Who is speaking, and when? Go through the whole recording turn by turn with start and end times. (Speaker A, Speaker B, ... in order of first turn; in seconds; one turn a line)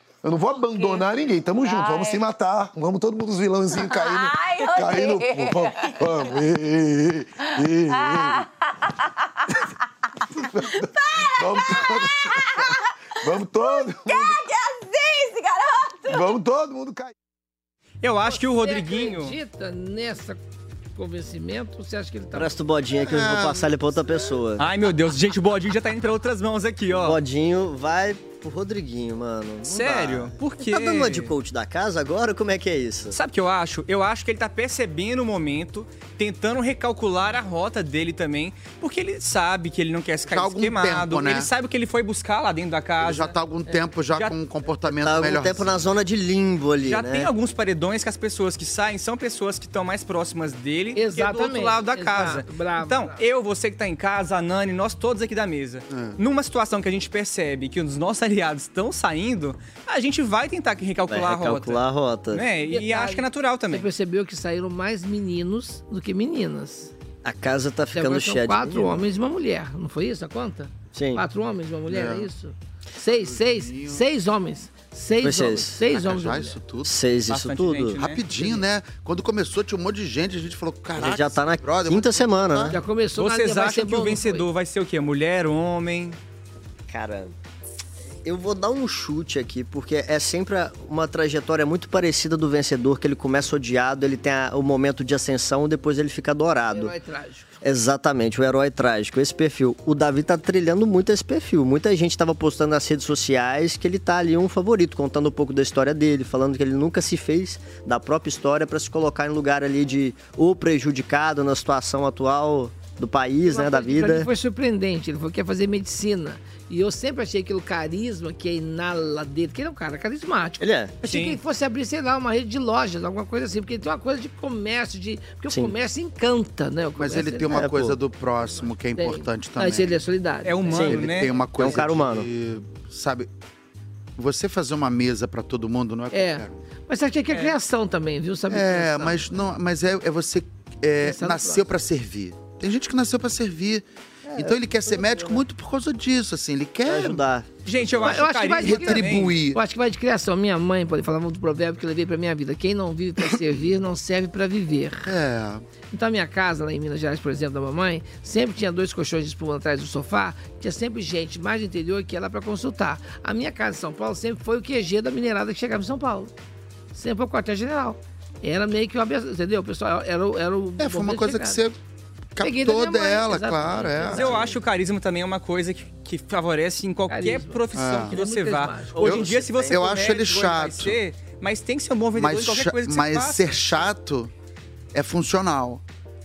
Speaker A: 0.2-8.5
Speaker B: 0.6-1.1
Speaker B: 1.6-2.2
Speaker B: 3.8-6.3
Speaker B: 7.9-8.4
Speaker A: 10.3-14.4
Speaker B: 10.8-12.7
Speaker B: 13.8-16.3
Speaker A: 16.1-17.1
Speaker C: 18.0-19.4
Speaker D: 18.2-20.4
Speaker D: 20.9-22.5
Speaker E: 22.3-24.6
Speaker F: 22.9-24.3
Speaker C: 24.6-27.2
Speaker E: 26.9-33.2
Speaker C: 29.6-31.3
Speaker C: 33.1-43.3
Speaker F: 40.3-41.5
Speaker F: 43.0-45.7
Speaker E: 45.0-47.3
Speaker C: 46.8-63.9
Speaker D: 50.9-53.2
Speaker F: 55.9-56.2
Speaker E: 61.1-62.4
Speaker D: 62.7-66.9
Speaker E: 67.2-69.0
Speaker D: 67.9-76.6
Speaker E: 70.9-71.2
Speaker F: 71.9-72.3
Speaker F: 73.0-74.0
Speaker E: 75.2-75.8
Speaker F: 75.9-77.0
Speaker E: 76.8-78.0
Speaker C: 77.3-78.2
Speaker F: 78.0-82.8
Speaker E: 81.0-82.8
Speaker D: 82.7-84.5
Speaker C: 83.2-86.2
Speaker E: 86.9-87.3
Speaker E: 88.2-96.9
Speaker D: 96.7-97.5
Speaker E: 97.6-114.3
Speaker D: 113.5-127.6
Speaker E: 120.6-121.0
Speaker C: 121.0-121.4
Speaker E: 125.5-125.7
Speaker F: 127.0-130.0
Speaker E: 127.5-128.0
Speaker D: 128.9-130.8
Speaker C: 130.4-131.3
Speaker E: 130.7-132.3
Speaker F: 130.8-133.3
Speaker F: 134.2-136.6
Speaker D: 136.1-139.4
Speaker F: 138.5-147.2
Speaker D: 141.0-141.6
Speaker E: 144.3-145.4
Speaker E: 146.8-147.5
Speaker C: 147.6-149.3
Speaker D: 148.0-155.1
Speaker F: 148.0-149.6
Speaker F: 155.1-155.6
Speaker D: 155.9-166.3
Speaker D: 166.9-171.6
Speaker F: 170.8-171.8
Speaker F: 172.3-174.4
Speaker D: 172.4-174.6
Speaker C: 174.1-183.9
Speaker D: 177.1-179.6
Speaker F: 177.7-178.2
Speaker F: 179.0-181.0
Speaker E: 179.0-179.7
Speaker F: 182.1-184.3
Speaker F: 184.9-185.8